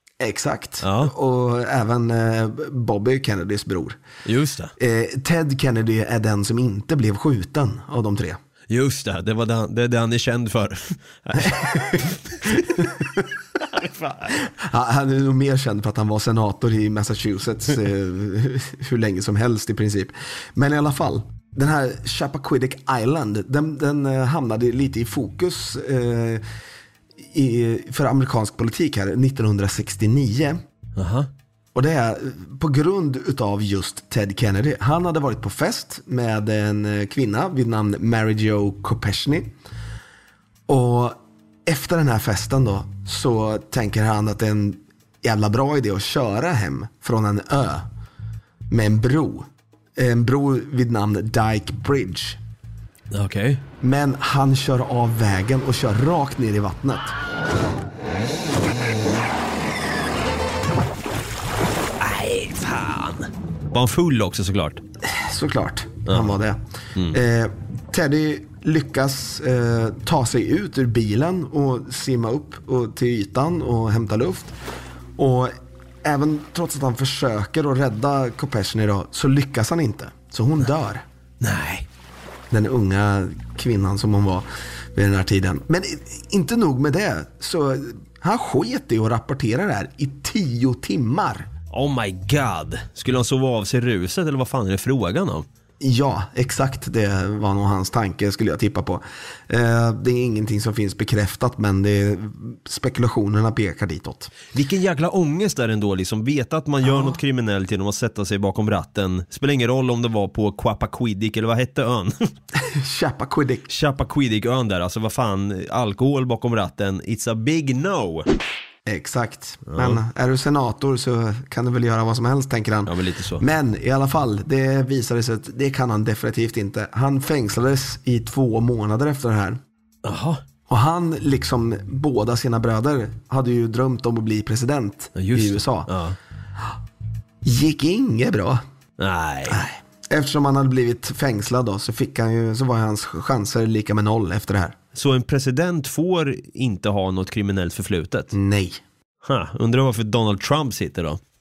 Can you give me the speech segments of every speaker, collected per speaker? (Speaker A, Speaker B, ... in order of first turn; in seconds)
Speaker A: 0.2-4.0, 4.8-8.4, 11.4-12.0, 12.8-13.2, 14.4-26.4, 27.2-30.6, 31.8-39.5, 40.7-47.9, 48.7-52.4, 53.8-57.2, 65.0-74.5, 75.2-81.0, 82.5-91.5, 95.8-104.3, 106.8-107.2, 112.6-113.7, 118.9-129.6, 130.7-135.9, 137.4-138.6, 139.5-144.8, 148.3-148.8
Speaker B: 0.8-1.1, 4.2-4.7, 8.7-12.6, 13.7-14.3, 31.0-31.3, 53.1-53.6, 62.0-64.8, 66.1-66.4, 81.4-81.9, 91.7-95.5, 104.5-112.2, 113.7-118.3, 119.7-120.0, 122.9-123.4, 130.1-130.4, 135.2-136.2, 139.0-139.6, 144.9-148.3, 149.2-151.2